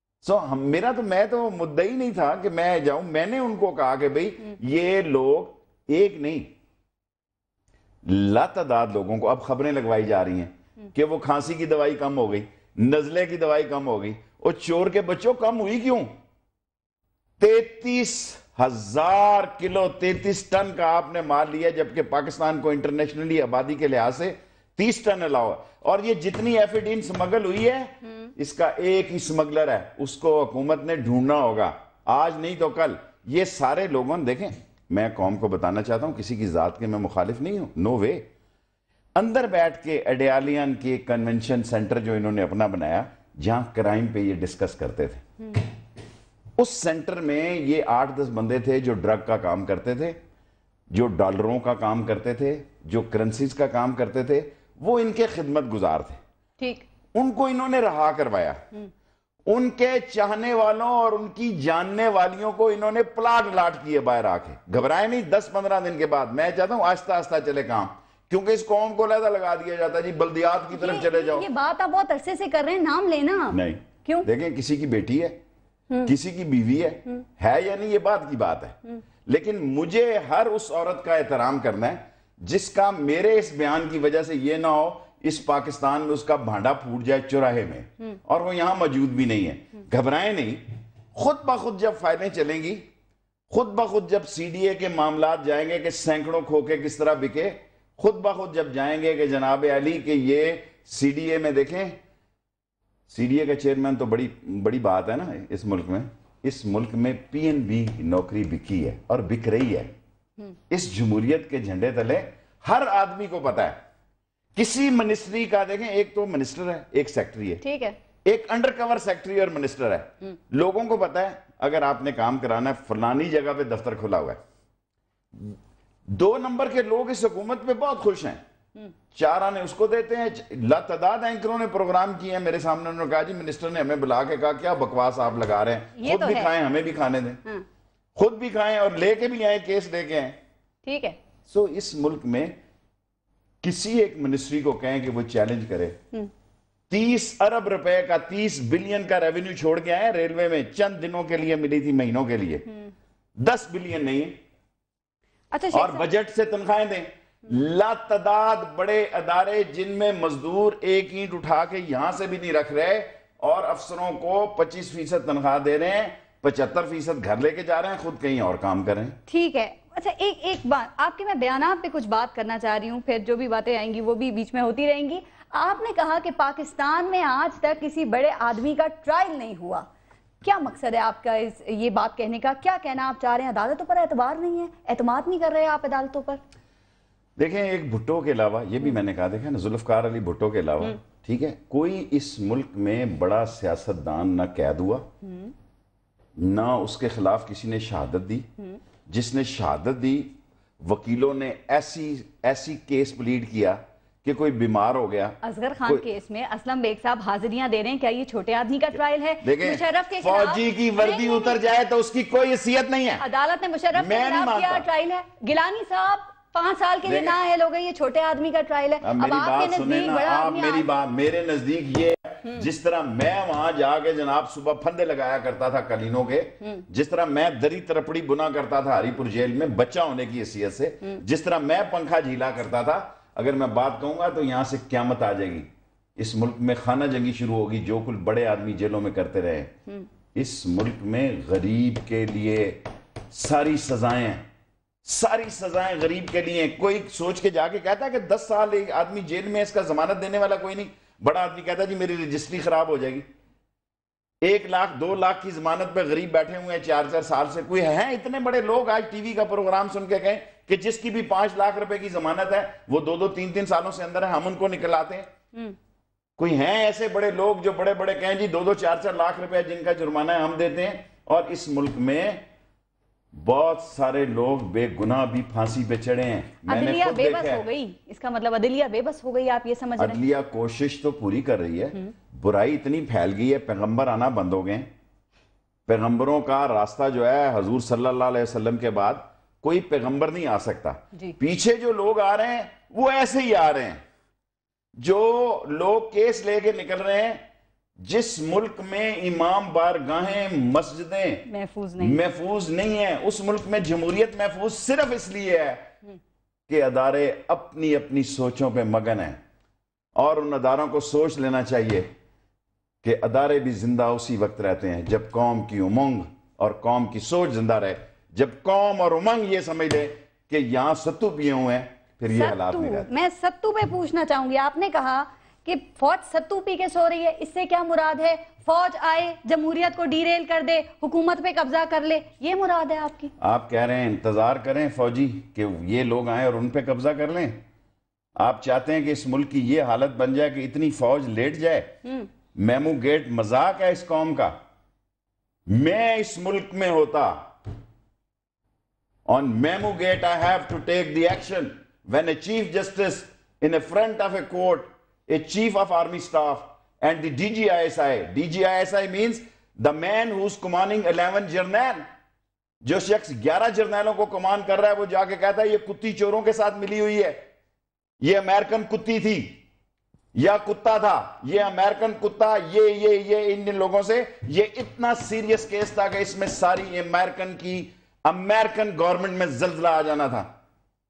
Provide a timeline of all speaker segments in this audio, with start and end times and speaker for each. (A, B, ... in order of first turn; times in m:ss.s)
0:00.2-0:06.5 A
0:08.1-0:16.1 A
0:17.4-0:38.2 A
0:39.2-0:45.2 A
0:46.6-0:50.2 A
0:50.9-0:56.2 A
0:56.6-0:56.9 B
0:57.1-0:58.6 A
0:59.5-1:11.5 A
1:10.7-1:14.3 B
1:13.5-1:15.4 A
1:16.0-1:32.9 A
1:33.5-1:42.0 A
1:43.1-1:49.9 A
1:50.7-1:53.8 A
1:54.6-1:57.6 A
1:57.6-1:58.0 B
1:58.2-2:04.4 A
2:06.1-2:08.4 A
2:09.1-2:17.4 A
2:16.0-2:16.5 B
2:18.2-2:20.4 A
2:20.8-2:21.2 B
2:21.5-2:22.6 A
2:23.6-2:26.0 A
2:26.9-2:32.7 A
2:33.4-2:34.4 A
2:35.5-2:36.0 B
2:35.7-2:49.2 A
2:49.3-2:59.9 B
3:00.4-3:06.4 B
3:07.4-3:15.1 A
3:15.2-3:15.5 B
3:16.4-3:18.5 A
3:19.1-3:26.0 A
3:25.4-3:31.6 B
3:29.4-3:33.2 A
3:33.2-3:40.9 B
3:33.9-3:34.9 A
3:37.1-3:37.4 A
3:39.0-3:59.7 A
4:00.3-4:04.4 A
4:05.0-4:13.2 A
4:14.4-4:25.3 A
4:26.4-4:32.4 A
4:33.3-4:37.6 A
4:36.6-4:40.2 B
4:40.0-4:44.9 A
4:45.8-4:54.0 A
4:55.0-4:57.4 A
4:58.0-5:01.4 A
5:01.5-5:02.2 B
5:02.0-5:05.9 A
5:06.7-5:09.4 A
5:10.2-5:12.1 A
5:13.0-5:23.1 A
5:22.3-5:33.3 B
5:33.4-5:37.6 A
5:38.4-5:41.9 A
5:42.6-5:44.6 A
5:45.7-5:47.5 A
5:49.3-6:02.1 A
6:02.8-6:07.4 A
6:08.2-6:09.6 A
6:10.3-6:20.5 A